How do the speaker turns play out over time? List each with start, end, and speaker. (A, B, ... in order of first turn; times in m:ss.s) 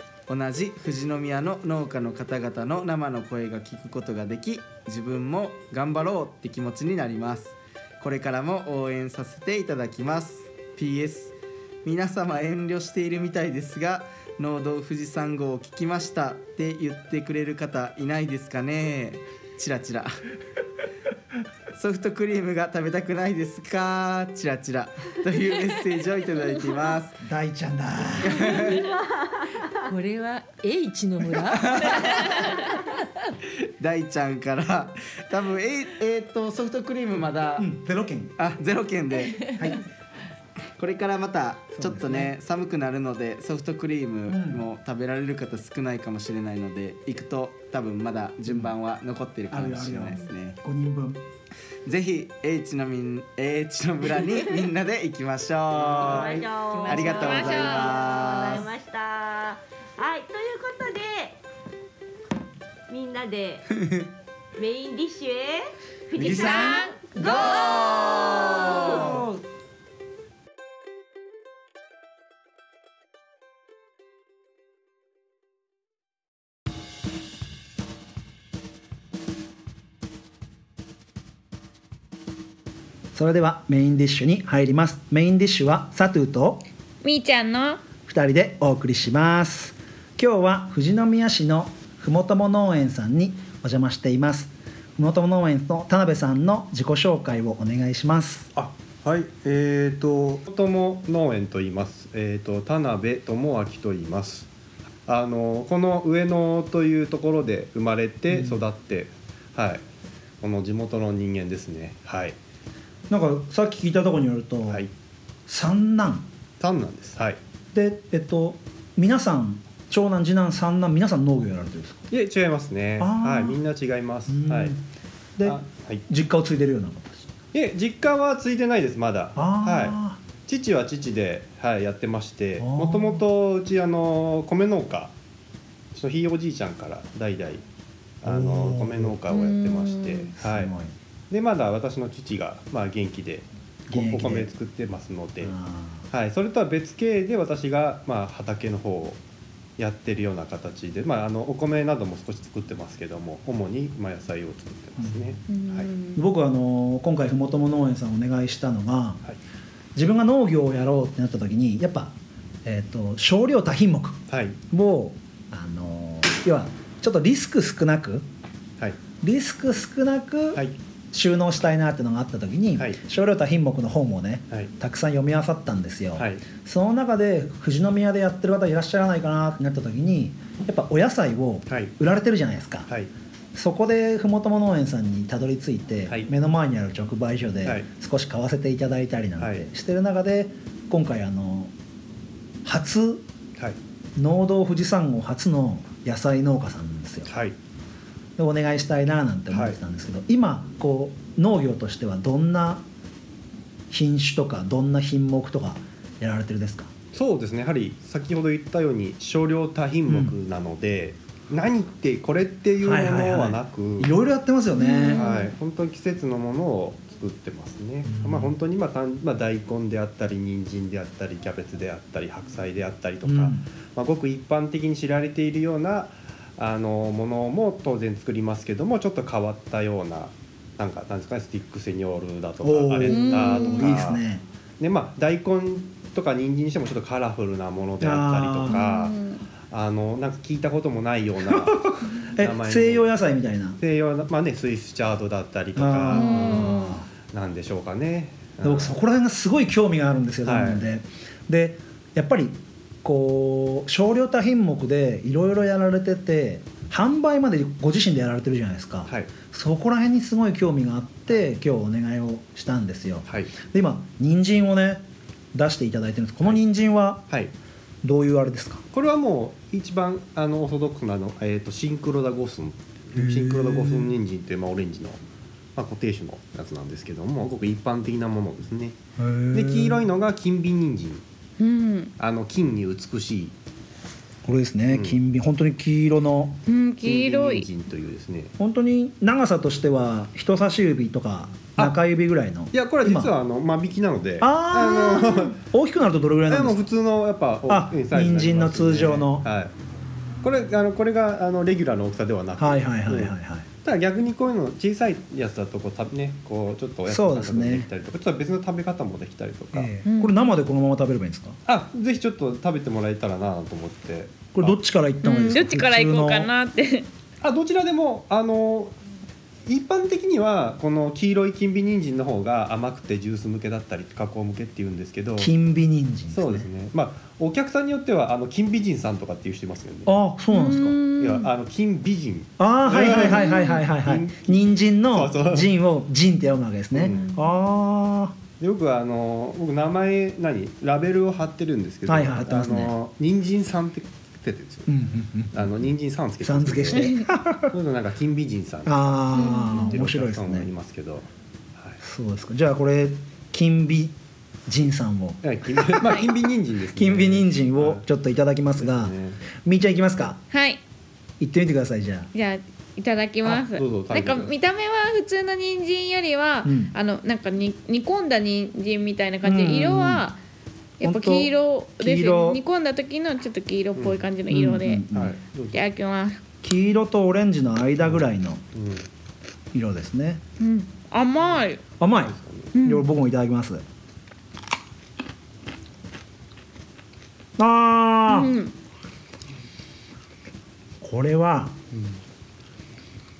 0:00.3-0:20.2 A
0:21.7-0:27.2 A
0:27.2-0:28.6 B
0:28.2-0:28.8 A
0:28.4-0:28.8 C
0:28.5-0:29.8 D
0:29.7-0:33.0 C
0:31.5-0:32.3 A
0:33.8-0:37.7 A
0:37.6-0:38.4 B
0:38.4-0:39.6 A
0:40.8-0:50.6 A
0:41.7-0:42.3 B
0:44.3-0:44.6 B
0:49.5-0:51.2 B
0:51.8-0:58.7 A
0:56.0-1:01.4 D
0:56.0-0:58.7 C
0:57.2-0:57.9 E
1:02.9-1:03.7 D
1:04.6-1:09.2 D
1:06.2-1:09.3 C
1:06.2-1:07.2 E
1:07.5-1:09.2 A
1:23.1-1:26.6 B
1:27.0-1:27.9 E
1:28.0-1:38.5 B
1:38.5-1:44.5 F
1:45.1-1:49.8 F
1:48.3-1:48.6 B
1:50.4-1:52.4 F
1:53.1-1:54.8 B
1:55.5-1:56.3 B
1:56.6-1:57.4 F
1:57.7-2:02.0 B
2:02.1-2:04.8 F
2:03.0-2:03.6 B
2:04.3-2:04.8 B
2:05.4-2:06.0 F
2:06.1-2:07.4 B
2:07.5-2:15.1 F
2:09.4-2:10.2 B
2:12.6-2:13.2 B
2:15.9-2:17.6 F
2:18.2-2:20.7 F
2:18.2-2:19.2 B
2:19.3-2:20.3 E
2:20.4-2:20.9 B
2:21.3-2:25.6 F
2:23.9-2:24.5 B
2:25.4-2:26.1 B
2:26.1-2:29.2 F
2:29.8-2:35.9 F
2:35.0-2:35.4 B
2:35.5-2:36.2 E
2:36.1-2:39.2 B
2:39.9-2:48.2 B
2:44.3-2:44.6 F
2:49.2-3:02.9 B
2:56.2-2:56.4 F
3:01.7-3:01.9 F
3:03.5-3:11.7 B
3:09.4-3:09.7 F
3:12.6-3:13.2 B
3:14.2-3:17.3 B
3:17.3-3:17.5 F
3:18.4-3:22.8 B
3:19.5-3:19.8 F
3:23.9-3:26.9 B
3:27.1-3:34.1 F
3:30.1-3:30.4 B
3:32.8-3:35.3 B
3:34.8-3:35.4 E
3:35.1-3:54.2 F
3:38.0-3:38.5 B
3:43.2-3:43.6 B
3:52.6-3:54.4 B
3:53.1-3:53.9 E
3:54.8-3:59.2 F
3:58.0-3:58.8 B
3:58.7-3:59.4 E
3:59.7-4:03.1 F
4:01.5-4:03.8 B
4:03.8-4:09.0 F
4:05.8-4:07.1 B
4:06.1-4:07.0 E
4:08.6-4:27.2 B
4:10.4-4:10.8 F
4:23.2-4:23.5 F
4:28.0-4:28.8 B
4:28.9-4:35.2 F
4:33.1-4:34.1 B
4:35.8-4:39.0 F
4:39.2-4:40.0 B
4:39.5-4:41.2 F
4:41.6-4:42.1 E
4:42.2-4:43.5 F
4:44.4-4:46.6 B
4:44.9-4:45.2 F
4:46.6-4:47.7 E
4:47.0-4:48.5 F
4:48.6-4:53.3 B
4:52.7-4:55.6 F
4:54.4-4:56.8 B
4:56.5-4:59.7 F
4:57.7-4:59.4 B
5:00.4-5:09.9 F
5:02.6-5:03.6 B
5:07.1-5:07.9 B
5:09.7-5:11.6 B
5:10.0-5:10.4 E
5:11.6-5:14.8 F
5:14.5-5:16.5 B
5:15.2-5:17.1 E
5:17.4-5:19.0 F
5:19.6-5:25.5 F
5:25.4-5:26.7 B
5:26.3-5:30.1 F
5:30.0-5:31.0 B
5:30.5-5:31.5 E
5:31.2-5:35.7 F
5:32.6-5:38.4 B
5:33.3-5:33.8 E
5:36.9-5:37.3 F
5:38.6-5:44.9 F
5:42.1-5:42.9 B
5:44.9-5:45.6 B
5:45.5-5:47.1 F
5:46.4-5:47.7 B
5:47.7-5:52.0 F
5:48.8-5:50.7 B
5:49.3-5:49.9 E
5:52.0-5:54.1 B
5:54.6-5:56.2 B
5:55.4-5:58.0 F
5:56.9-6:00.4 B
5:58.8-5:59.4 F
6:00.5-6:00.8 E
6:01.4-6:02.3 B
6:02.3-6:10.4 E
6:03.4-6:04.5 F
6:06.6-6:06.9 B
6:09.4-6:10.2 B
6:11.0-6:15.0 E
6:11.0-6:12.6 B
6:14.0-6:14.2 F
6:14.5-6:15.3 B
6:15.1-6:15.8 F
6:15.7-6:16.4 E
6:16.6-6:18.6 B
6:18.0-6:19.1 F
6:19.7-6:20.4 B
6:20.6-6:21.8 E
6:22.0-6:23.8 B
6:22.2-6:22.7 F
6:22.7-6:23.1 E
6:27.6-6:28.6 B
6:28.3-6:28.7 E
6:31.0-6:31.8 B
6:31.9-6:32.2 F